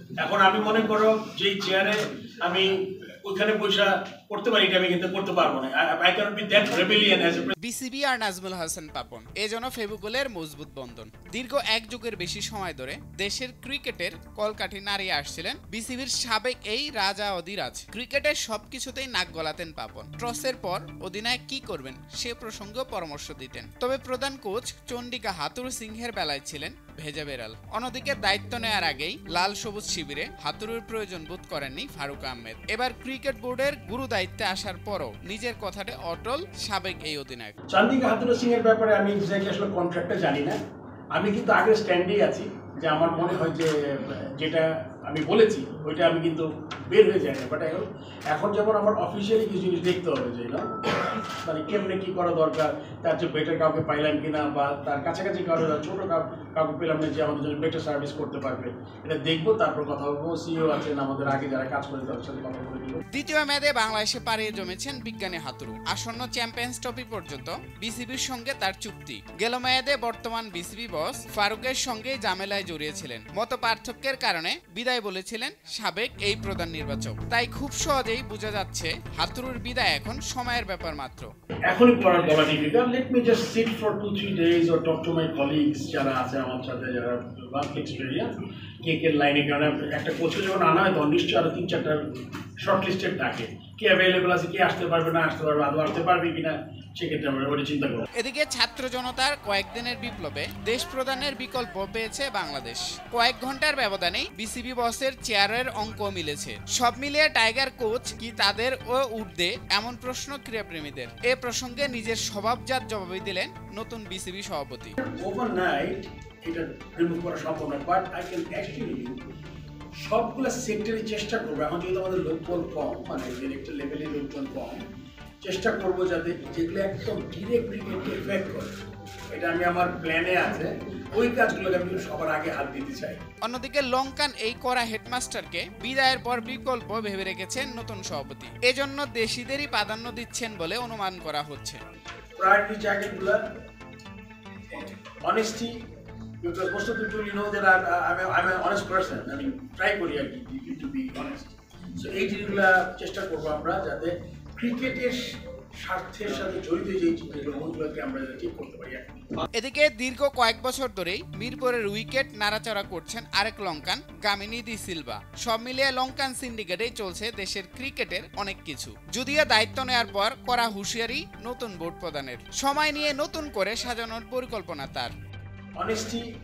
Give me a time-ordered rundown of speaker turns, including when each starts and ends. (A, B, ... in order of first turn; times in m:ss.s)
0:00.2-0:07.5 A
0:07.6-0:37.5 B
0:37.7-0:40.6 A
0:41.1-1:03.0 A
1:03.1-1:21.3 B
1:21.7-1:28.3 A
1:28.8-1:32.0 A
1:32.6-1:38.1 A
1:38.2-1:55.0 B
1:55.0-1:59.2 A
2:00.0-2:04.8 A
2:05.4-2:08.8 A
2:09.3-2:13.2 A
2:13.4-2:21.8 B
2:22.4-2:23.4 A
2:24.7-2:25.8 A
2:26.4-2:35.2 A
2:35.8-2:39.4 A
2:39.6-2:55.1 B
2:55.8-2:56.3 A